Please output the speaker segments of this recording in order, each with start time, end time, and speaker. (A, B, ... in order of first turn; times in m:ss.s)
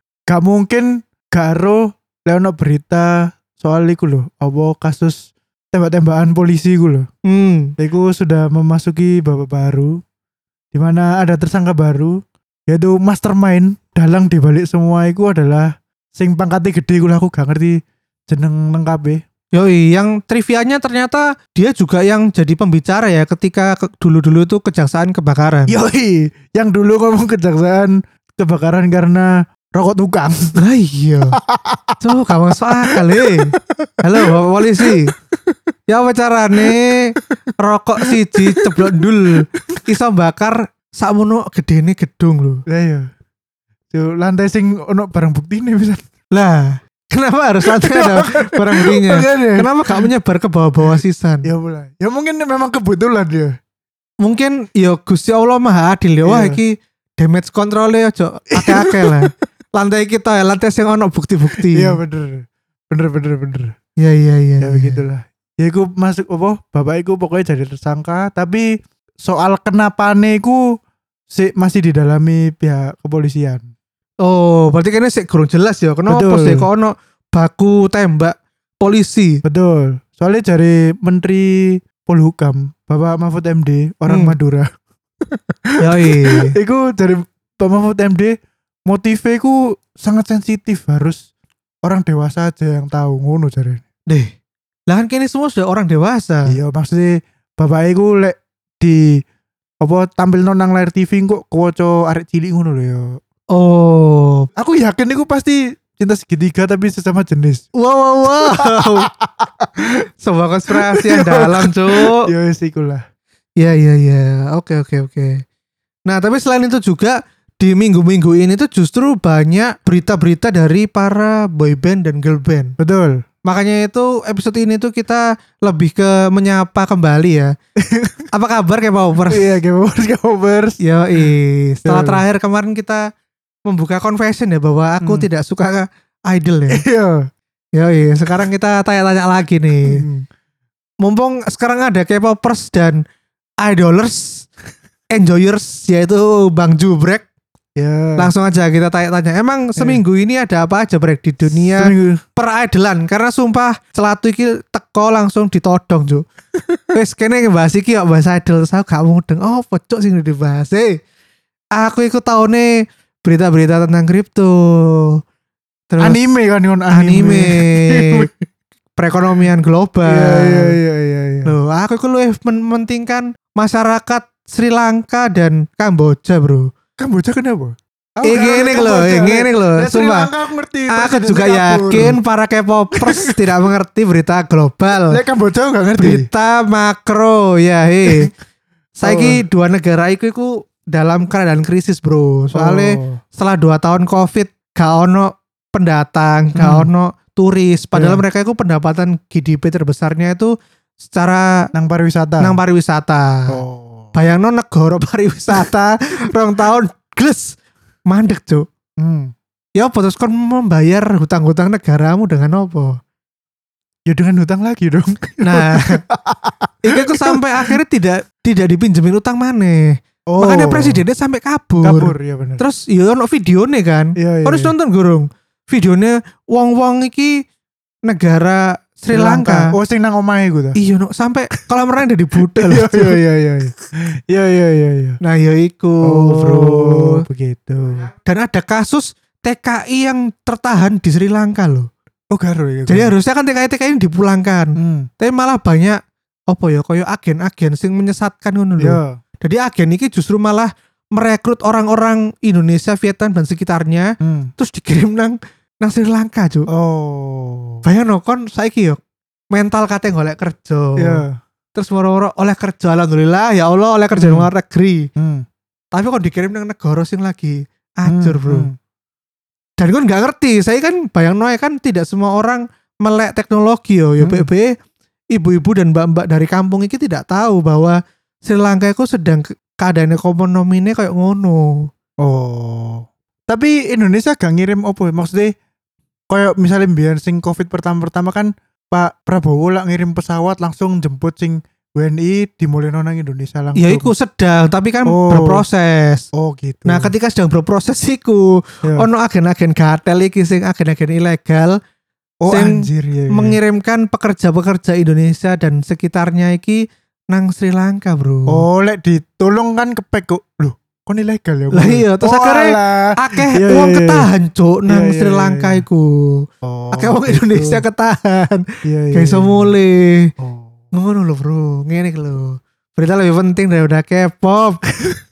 0:00.3-0:07.1 A
0:07.3-0:07.7 B
0:07.8-0:10.0 A
0:10.7-0:19.2 A
0:19.5-0:25.8 B
0:25.7-0:30.6 A
0:30.6-0:31.4 B
0:31.4-0:32.1 A
0:32.0-0:35.1 B
0:32.8-0:35.5 A
0:35.9-0:42.6 B
0:38.0-0:39.1 A
0:42.7-0:43.1 A
0:43.9-0:46.1 A
0:46.3-0:51.5 B
0:47.6-0:50.1 A
0:50.9-0:53.6 A
0:54.2-1:02.0 B
0:56.2-0:56.6 A
0:58.5-0:59.3 A
1:01.6-1:03.8 A
1:04.0-1:05.0 B
1:04.6-1:10.7 A
1:11.3-1:13.7 A
1:14.2-1:19.4 B
1:16.1-1:16.7 A
1:19.4-1:24.7 A
1:24.1-1:24.3 B
1:25.3-1:28.4 A
1:25.8-1:26.5 B
1:28.9-1:31.2 A
1:31.8-1:33.8 A
1:34.9-1:36.6 B
1:36.5-1:39.2 A
1:39.8-1:43.2 A
1:43.5-1:44.5 B
1:44.6-1:47.7 A
1:47.8-1:49.1 B
1:48.4-1:49.8 A
1:50.2-1:52.3 B
1:50.7-1:53.0 A
1:53.6-1:55.4 B
1:56.1-2:02.8 B
2:02.8-2:03.2 A
2:03.4-2:07.5 B
2:07.8-2:08.3 A
2:08.3-2:09.5 B
2:09.3-2:11.3 A
2:10.8-2:13.1 B
2:11.8-2:12.2 A
2:13.7-2:16.8 B
2:15.0-2:15.3 A
2:16.7-2:17.3 A
2:17.8-2:20.0 B
2:19.8-2:20.3 A
2:21.0-2:23.0 B
2:23.6-2:24.5 B
2:25.1-2:27.2 B
2:27.8-2:28.3 A
2:28.2-2:36.2 B
2:29.8-2:30.0 A
2:31.5-2:32.2 A
2:36.9-2:41.0 B
2:41.7-2:45.2 B
2:45.9-2:46.2 B
2:46.0-2:48.4 A
2:46.9-2:48.3 B
2:49.0-2:50.8 B
2:50.0-2:51.5 A
2:51.4-2:56.7 B
2:57.0-3:02.2 A
2:58.2-3:00.3 B
3:00.9-3:05.2 B
3:02.9-3:03.5 A
3:05.0-3:06.3 A
3:06.0-3:08.3 B
3:08.1-3:08.3 A
3:09.0-3:21.7 B
3:09.0-3:09.4 A
3:12.6-3:13.2 A
3:16.6-3:16.9 A
3:17.9-3:18.2 A
3:21.7-3:22.6 A
3:22.4-3:23.6 B
3:23.5-3:24.1 A
3:24.1-3:27.6 B
3:28.1-3:28.6 B
3:29.0-3:29.3 A
3:29.8-3:33.0 B
3:34.1-3:37.8 A
3:35.4-3:36.0 B
3:36.8-3:47.4 B
3:40.3-3:41.0 A
3:41.8-3:42.6 A
3:44.2-3:44.7 A
3:48.1-3:49.7 B
3:49.1-3:50.8 A
3:50.8-3:53.2 B
3:52.4-3:55.2 A
3:55.2-3:57.2 B
3:56.0-3:58.1 A
3:58.2-4:01.9 B
4:02.3-4:03.1 A
4:02.9-4:06.0 B
4:04.8-4:05.1 A
4:06.5-4:16.7 B
4:08.8-4:09.2 A
4:14.2-4:14.5 A
4:16.7-4:17.8 A
4:17.8-4:19.0 B
4:19.5-4:21.2 B
4:21.0-4:21.4 A
4:21.7-4:25.1 B
4:24.2-4:24.5 A
4:25.2-4:25.4 A
4:25.9-4:28.7 B
4:28.1-4:28.7 A
4:29.8-4:34.7 B
4:34.2-4:34.5 A
4:35.3-4:41.9 B
4:42.2-4:45.5 A
4:46.3-4:54.1 A
4:53.8-4:56.3 B
4:55.1-4:55.6 A
4:56.3-4:57.1 A
4:56.8-5:01.8 B
5:02.4-5:03.6 A
5:02.5-5:08.7 B
5:08.5-5:14.3 A
5:11.7-5:20.3 B
5:14.9-5:15.8 A
5:16.6-5:17.8 A
5:18.8-5:19.7 A
5:20.4-5:20.7 A
5:20.9-5:24.8 B